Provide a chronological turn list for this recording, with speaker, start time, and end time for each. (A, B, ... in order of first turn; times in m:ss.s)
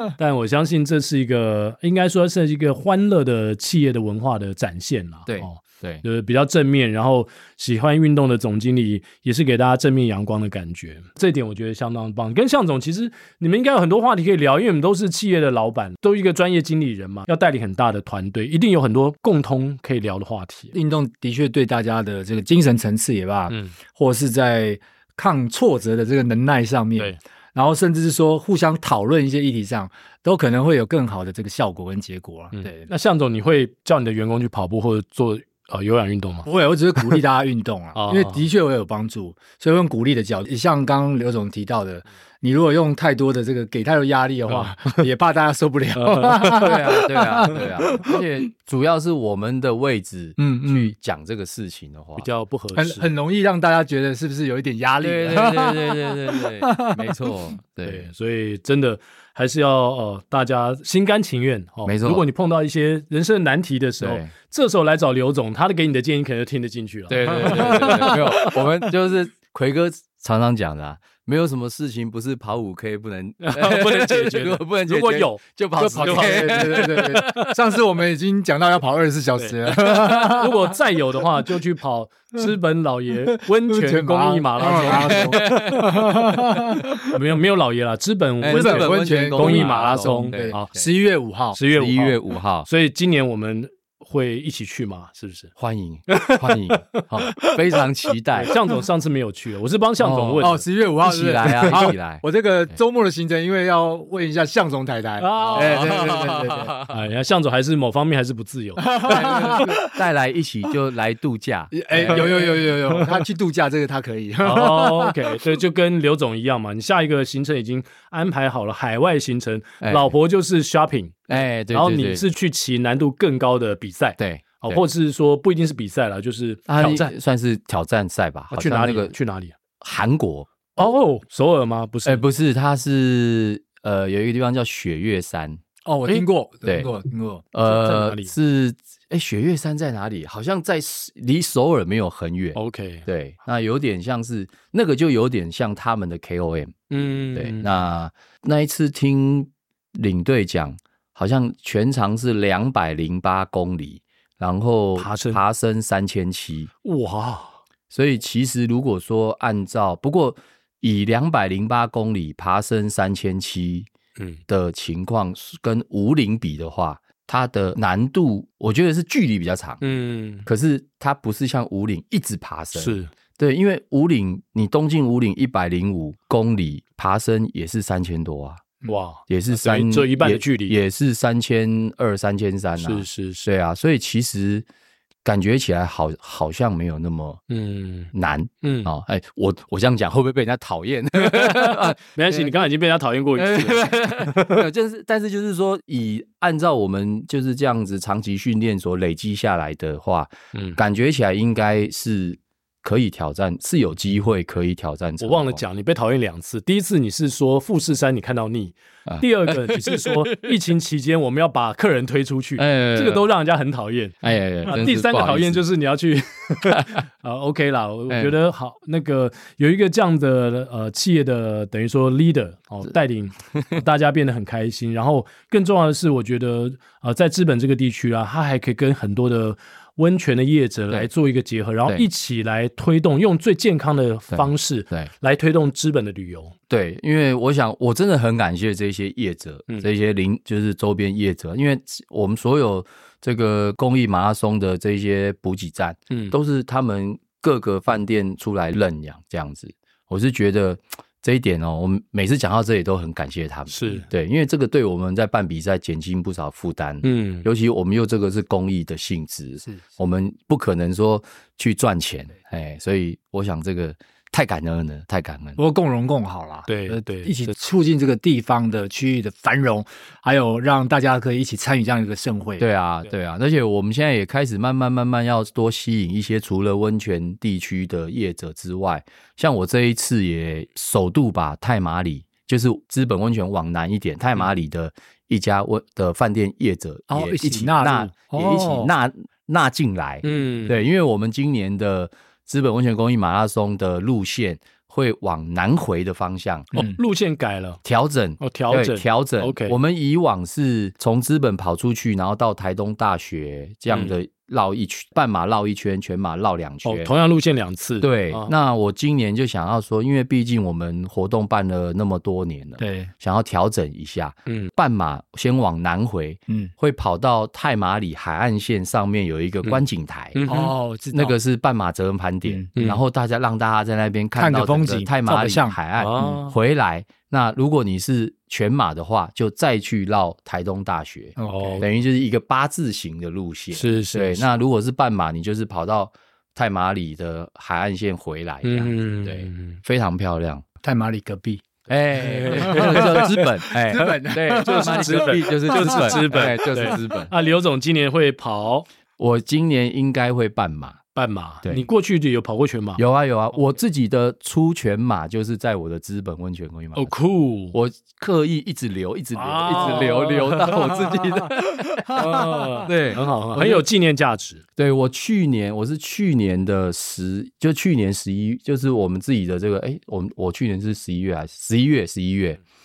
0:00.2-0:20.7 A
0:05.3-0:06.0 B
0:20.7-0:32.9 C
0:23.5-0:23.7 A
0:32.5-0:37.2 A
0:36.4-0:48.1 C
0:37.9-0:38.5 A
0:44.5-0:45.0 A
0:45.9-0:46.7 A
0:46.5-0:52.3 B
0:50.4-0:50.9 C
0:52.2-0:53.1 A
0:52.8-0:57.1 C
0:55.0-0:58.1 B
0:57.8-1:08.5 A
1:01.8-1:02.3 B
1:04.0-1:04.3 B
1:07.1-1:17.5 B
1:13.4-1:17.1 A
1:15.8-1:20.7 C
1:19.4-1:26.1 A
1:23.3-1:27.1 C
1:24.8-1:26.0 B
1:27.1-1:30.7 A
1:28.4-1:30.6 B
1:28.5-1:31.6 C
1:31.5-1:35.5 A
1:31.7-1:32.7 B
1:35.6-1:38.5 B
1:36.1-1:36.4 A
1:38.4-1:40.6 A
1:40.0-1:42.2 B
1:40.4-1:46.7 C
1:45.2-1:46.2 A
1:45.5-1:47.0 B
1:46.9-1:49.5 A
1:48.8-1:49.9 C
1:49.0-1:52.5 B
1:51.7-1:55.2 C
1:51.9-1:53.0 A
1:54.4-2:07.1 A
1:59.8-2:00.1 B
2:01.3-2:02.2 B
2:04.2-2:04.8 B
2:06.7-2:09.1 B
2:08.5-2:09.5 A
2:09.8-2:10.6 B
2:10.8-2:12.2 A
2:12.0-2:15.6 B
2:15.8-2:17.4 C
2:17.5-2:26.7 B
2:17.6-2:18.3 A
2:22.5-2:23.1 A
2:26.9-2:27.7 A
2:27.3-2:36.7 B
2:35.0-2:35.4 A
2:36.8-2:37.6 A
2:37.9-2:43.9 B
2:44.5-2:49.8 B
2:49.8-2:50.5 A
2:50.4-2:58.7 B
2:52.7-2:53.1 A
2:58.8-3:00.7 A
2:59.3-3:04.6 B
3:02.8-3:03.4 A
3:05.2-3:07.4 B
3:07.5-3:08.9 A
3:08.1-3:12.5 B
3:11.2-3:14.6 A
3:13.3-3:25.6 B
3:20.5-3:20.8 A
3:25.2-3:56.5 A
3:29.1-3:30.5 B
3:32.6-3:33.3 B
3:34.2-3:35.6 B
3:36.6-3:36.9 B
3:38.1-3:38.3 B
3:54.3-3:55.1 B
3:56.7-4:25.6 B
4:13.7-4:14.1 A
4:17.0-4:17.5 A
4:19.6-4:19.9 C
4:25.6-4:32.6 C
4:26.7-4:27.5 A
4:32.6-4:56.7 B
4:47.1-4:48.9 C
4:50.2-4:50.8 A
4:56.7-4:57.8 A
4:57.8-5:07.1 B
4:58.4-4:59.8 A
5:03.9-5:04.2 A
5:06.8-5:08.5 A
5:08.0-5:20.4 B
5:12.8-5:13.1 C
5:20.3-5:20.7 A
5:20.5-5:21.3 C
5:21.1-5:40.6 B
5:24.3-5:25.8 C
5:26.0-5:26.5 A
5:31.4-5:31.8 C
5:31.5-5:31.9 A
5:33.7-5:34.4 A
5:38.6-5:39.8 A
5:40.8-5:41.6 C
5:41.9-5:47.3 B
5:42.4-5:43.4 A
5:42.4-5:46.2 C
5:44.6-5:48.8 A
5:49.2-5:51.0 B
5:51.1-5:53.0 A
5:53.0-5:57.1 B
5:56.9-5:57.8 A
5:57.7-6:03.8 B
5:59.3-6:01.0 A
6:02.0-6:04.6 A
6:04.8-6:12.6 B